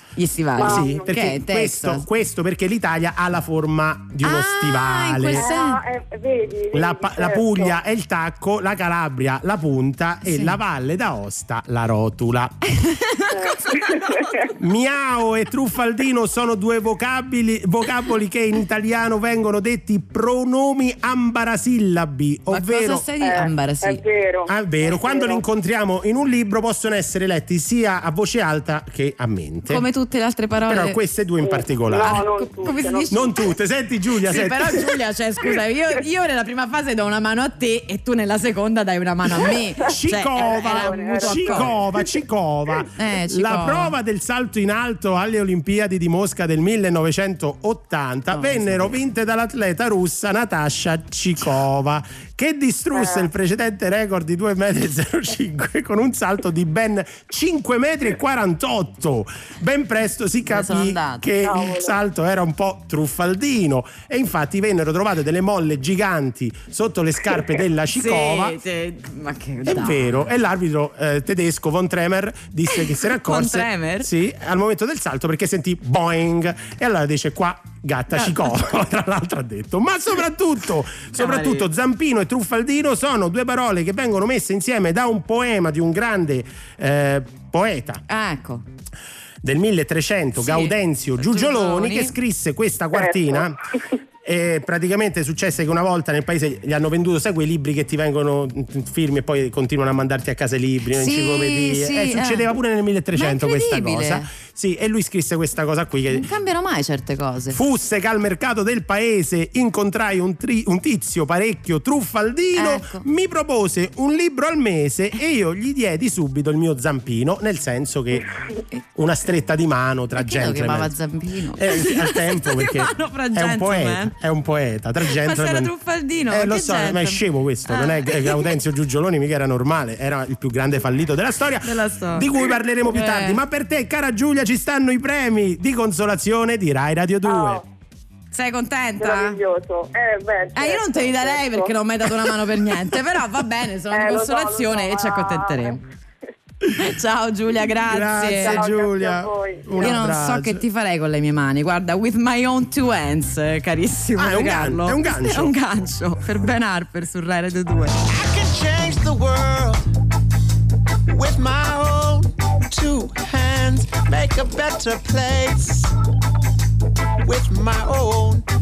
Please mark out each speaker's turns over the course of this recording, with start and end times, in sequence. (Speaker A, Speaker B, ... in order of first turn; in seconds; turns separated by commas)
Speaker A: 0.2-2.0, Speaker B: 0.6-1.1, Speaker C: 0.6-5.5, Speaker A: 4.2-5.8, Speaker B: 5.4-7.7, Speaker C: 6.7-12.6, Speaker A: 10.3-10.5, Speaker A: 12.7-14.5, Speaker B: 13.3-14.5, Speaker C: 14.5-23.0, Speaker A: 22.5-24.0, Speaker B: 23.2-25.4, Speaker C: 24.5-29.8, Speaker A: 29.7-31.0, Speaker C: 30.6-32.2, Speaker B: 31.4-33.1, Speaker A: 31.9-33.5, Speaker C: 33.1-34.9, Speaker A: 34.3-41.7, Speaker C: 39.8-68.6, Speaker B: 40.4-42.2, Speaker A: 43.0-43.9, Speaker A: 48.3-49.0, Speaker B: 53.0-53.2, Speaker A: 60.5-61.2, Speaker B: 61.4-61.9, Speaker A: 67.9-70.2, Speaker C: 69.6-88.0, Speaker A: 72.7-74.1, Speaker A: 78.1-78.7, Speaker A: 81.1-81.7, Speaker A: 88.1-88.6, Speaker C: 89.4-93.6, Speaker A: 90.4-92.1, Speaker C: 94.2-106.3, Speaker A: 100.9-102.5, Speaker A: 103.1-104.2, Speaker A: 106.1-107.6, Speaker C: 107.5-118.3, Speaker A: 112.5-113.0, Speaker C: 118.9-120.9, Speaker A: 120.1-124.1, Speaker C: 121.5-125.7, Speaker A: 125.1-128.5, Speaker C: 126.3-137.6, Speaker A: 131.6-132.3, Speaker A: 132.8-133.4, Speaker B: 137.2-137.6, Speaker A: 138.3-139.4, Speaker B: 139.0-141.7, Speaker A: 140.5-145.8, Speaker B: 143.9-145.8, Speaker A: 146.7-148.6, Speaker C: 147.9-150.6, Speaker B: 148.2-149.9, Speaker A: 149.8-158.0, Speaker C: 154.2-155.5, Speaker D: 158.2-159.8, Speaker D: 161.1-162.2, Speaker D: 162.7-165.9, Speaker D: 167.2-168.4